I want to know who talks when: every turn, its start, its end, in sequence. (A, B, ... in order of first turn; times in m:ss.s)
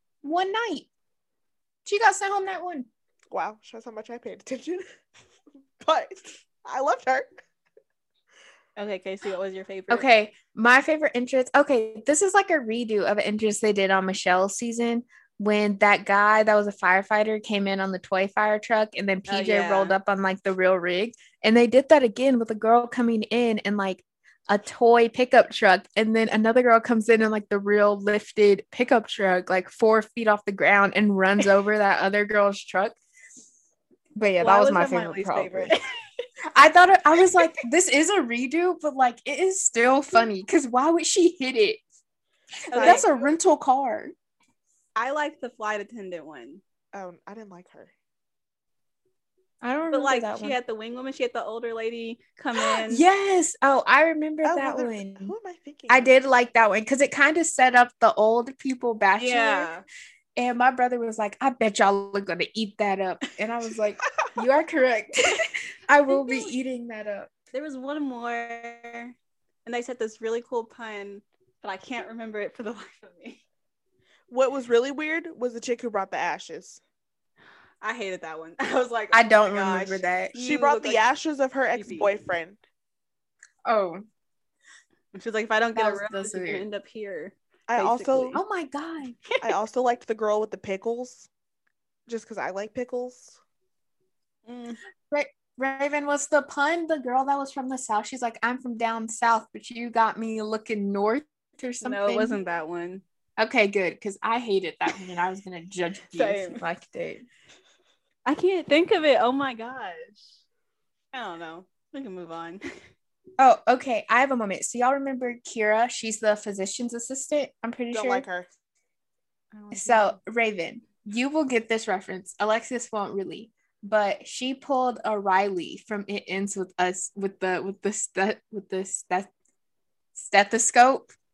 0:00.2-0:00.9 A
0:01.8-0:02.9 A
0:03.3-0:04.8 B
0:05.8-0:07.4 B
0:08.8-0:10.1 C
0:09.9-0:33.0 A
0:19.3-0:20.0 C
0:34.2-0:35.7 A
0:34.4-0:35.8 C
0:36.5-0:41.8 A
0:42.7-0:43.1 C
0:42.7-0:43.3 B
0:42.8-0:44.1 A
0:45.0-0:46.6 C
0:46.9-0:47.9 B
0:49.6-0:50.6 A
0:49.9-0:53.0 C
0:52.6-0:55.3 A
0:54.4-0:56.1 B
0:55.9-0:59.7 A
0:59.2-0:59.8 C
1:00.4-1:07.3 A
1:06.1-1:06.5 C
1:07.5-1:13.4 C
1:14.3-1:16.8 B
1:17.8-1:21.0 C
1:19.1-1:20.3 A
1:20.3-1:22.6 B
1:21.8-1:22.2 C
1:23.7-1:24.0 A
1:25.1-1:28.4 C
1:25.8-1:26.6 A
1:27.7-1:28.4 B
1:28.4-1:29.2 A
1:29.4-1:31.3 B
1:32.1-1:33.4 B
1:34.5-1:34.8 C
1:35.1-1:42.4 A
1:41.8-1:43.0 C
1:43.4-1:47.3 A
1:46.1-1:46.6 C
1:48.3-1:50.3 C
1:51.1-1:52.6 C
1:53.4-1:58.3 A
1:57.9-1:58.5 B
1:59.5-2:00.2 C
1:59.7-2:09.3 A
2:10.2-2:11.1 A